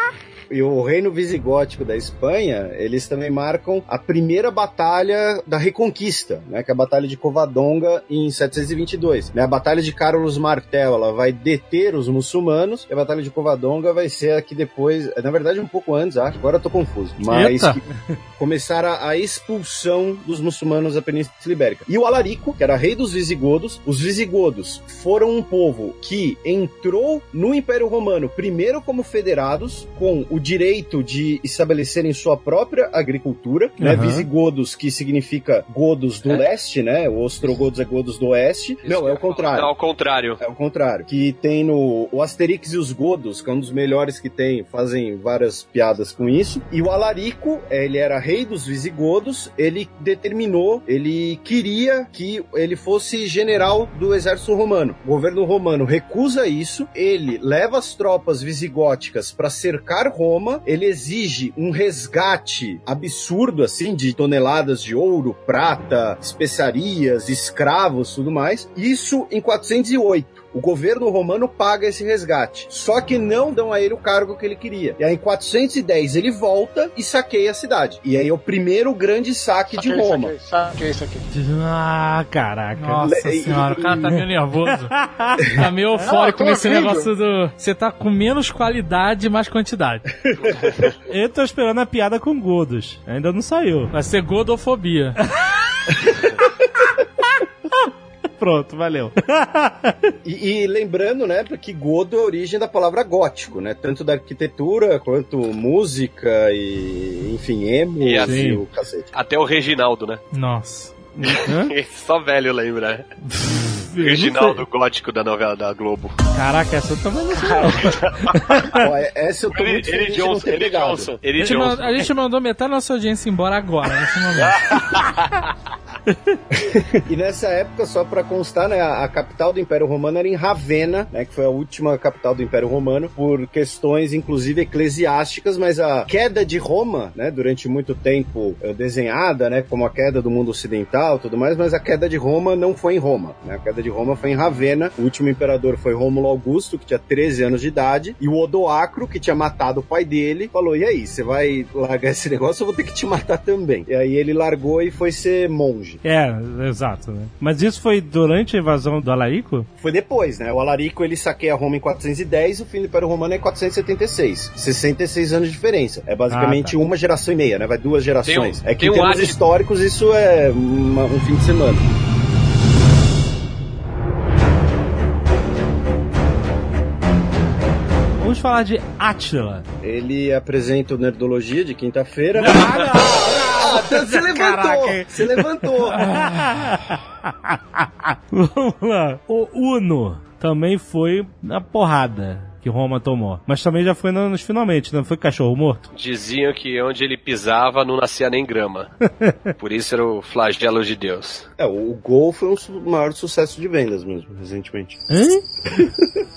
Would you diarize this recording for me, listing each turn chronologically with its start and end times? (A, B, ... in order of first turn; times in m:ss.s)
0:00.5-0:17.8 A
0:17.2-0:17.8 B
0:18.4-0:39.7 A
0:33.8-0:34.2 C
0:38.8-0:40.4 D
0:40.4-1:20.3 A
1:19.7-1:21.3 E
1:21.3-1:26.0 C
1:22.8-1:24.9 B
1:23.0-1:24.1 A
1:25.5-1:30.0 B
1:26.0-1:27.1 E
1:30.2-1:30.9 A
1:30.5-1:30.8 D
1:31.1-1:33.9 C
1:33.9-1:35.2 B
1:37.7-1:40.1 C
1:40.2-1:49.1 A
1:48.0-1:48.4 D
1:48.2-1:48.6 C
1:49.1-1:50.2 D
1:50.3-1:50.9 B
1:51.2-1:51.7 C
1:51.2-1:53.1 D
1:53.5-1:54.6 C
1:54.0-1:56.2 D
1:56.3-1:58.8 C
1:57.4-1:58.4 D
1:58.7-2:01.1 A
1:59.5-2:01.9 D
2:01.4-2:02.1 C
2:01.4-2:04.6 B
2:04.4-2:05.3 D
2:06.5-2:36.0 A
2:36.0-2:39.7 C
2:39.8-2:51.8 A
2:46.3-2:46.8 C
2:48.2-2:49.4 D
2:58.2-2:59.6 C
2:59.8-3:06.0 A
3:02.3-3:15.8 C
3:15.9-3:18.9 D
3:19.1-3:19.5 C
3:19.6-3:21.4 D
3:21.6-3:25.0 A
3:25.1-3:25.9 C
3:25.8-3:26.0 A